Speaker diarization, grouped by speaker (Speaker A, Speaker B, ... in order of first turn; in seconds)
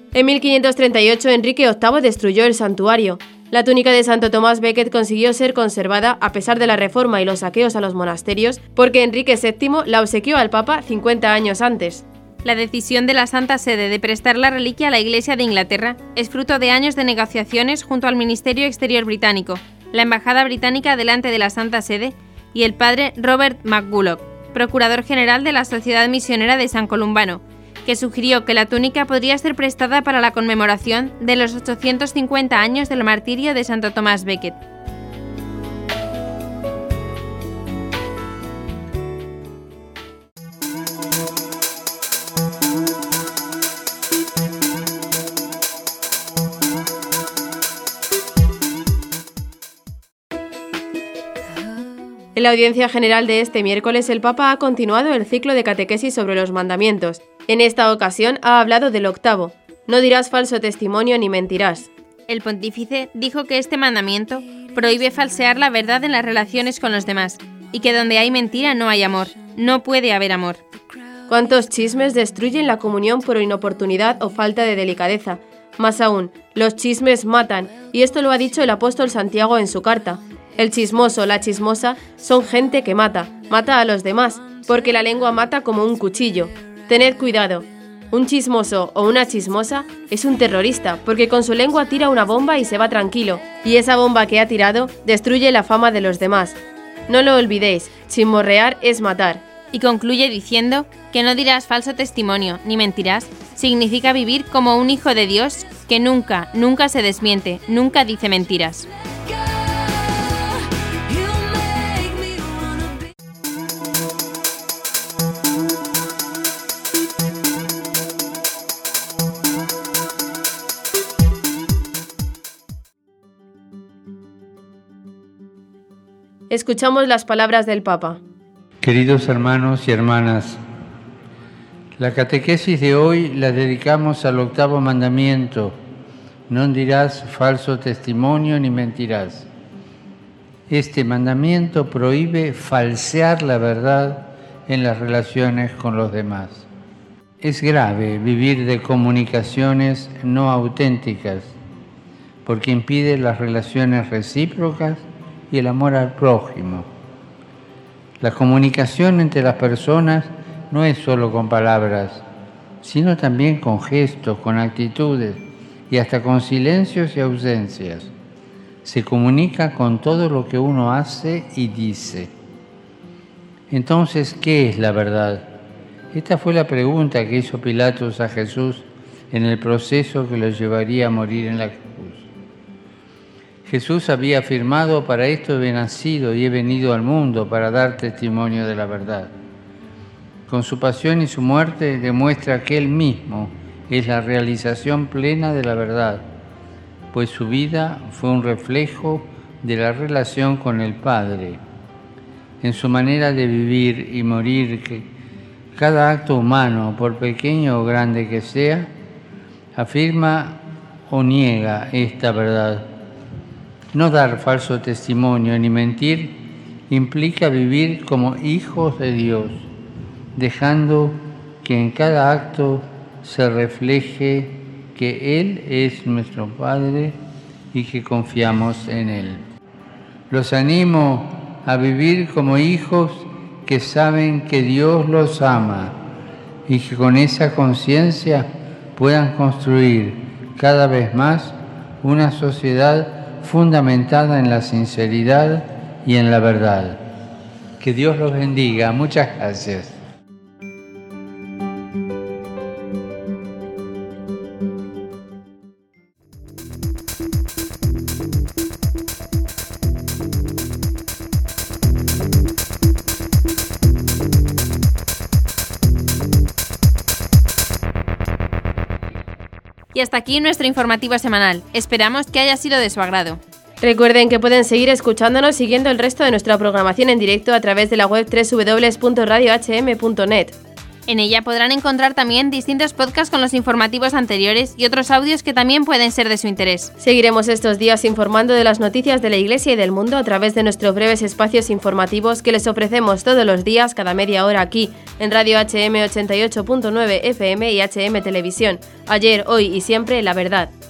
Speaker A: 0.1-12.0, 52.3-61.9, 71.3-96.6, 97.1-99.4, 126.5-128.2, 273.8-280.6, 287.0-300.7
Speaker B: 12.4-34.6, 62.3-70.6, 99.7-108.9, 111.8-112.3, 269.9-273.4, 281.1-286.9
Speaker C: 128.8-130.6, 132.0-135.7, 136.5-139.5, 140.7-146.7, 147.4-151.5, 152.4-156.9, 158.2-162.2, 162.8-168.1, 168.8-172.3, 173.7-175.4, 176.1-182.3, 183.7-189.3, 190.5-196.2, 197.1-201.6, 202.6-205.1, 205.7-208.9, 209.8-212.9, 213.9-216.3, 216.9-219.6, 220.3-227.2, 227.7-229.4, 230.3-235.9, 236.7-247.0, 247.8-249.9